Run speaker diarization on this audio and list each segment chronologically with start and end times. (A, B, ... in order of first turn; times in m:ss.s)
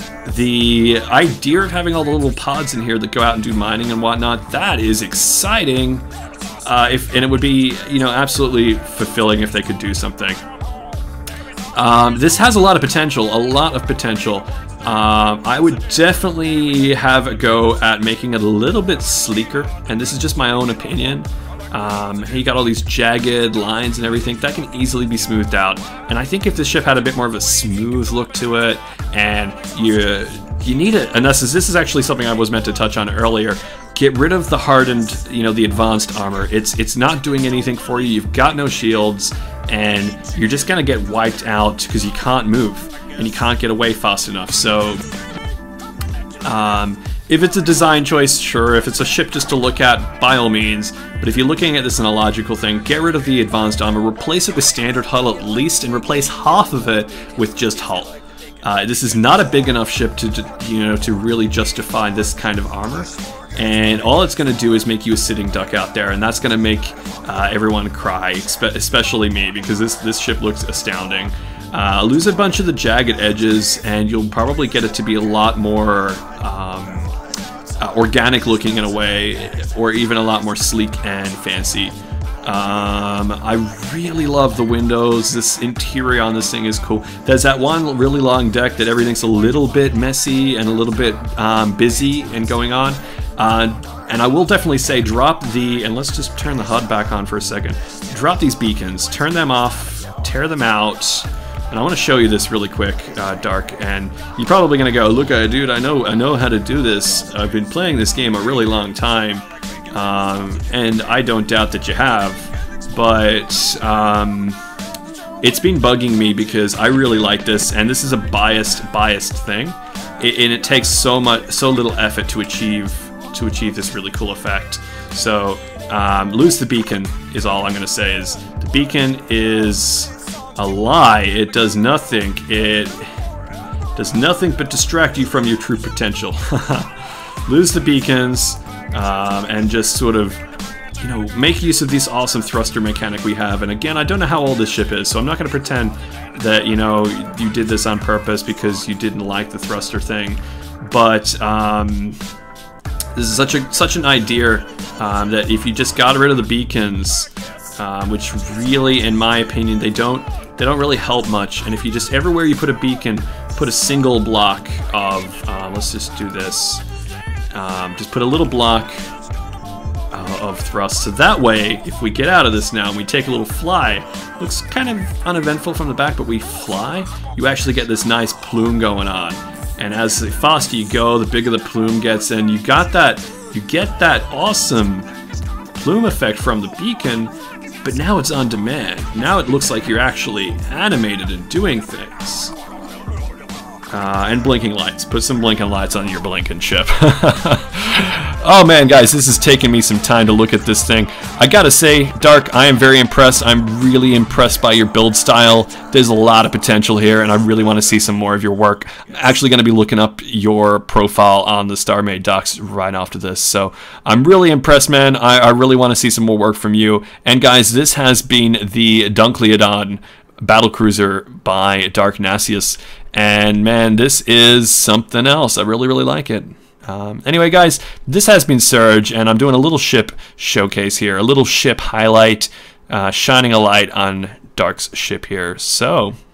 0:00.2-0:06.1 A
0:06.6-0:10.4 A
0:11.7-0:45.0 A
0:46.4-1:17.1 A
1:17.8-1:54.6 A
1:55.4-2:13.1 A
2:14.0-2:20.4 A
2:21.0-2:32.2 A
2:33.1-2:46.8 A
2:47.5-2:49.1 A
2:50.1-3:05.1 A
3:05.7-3:07.3 A
3:07.8-3:12.5 A
3:13.9-3:56.2 A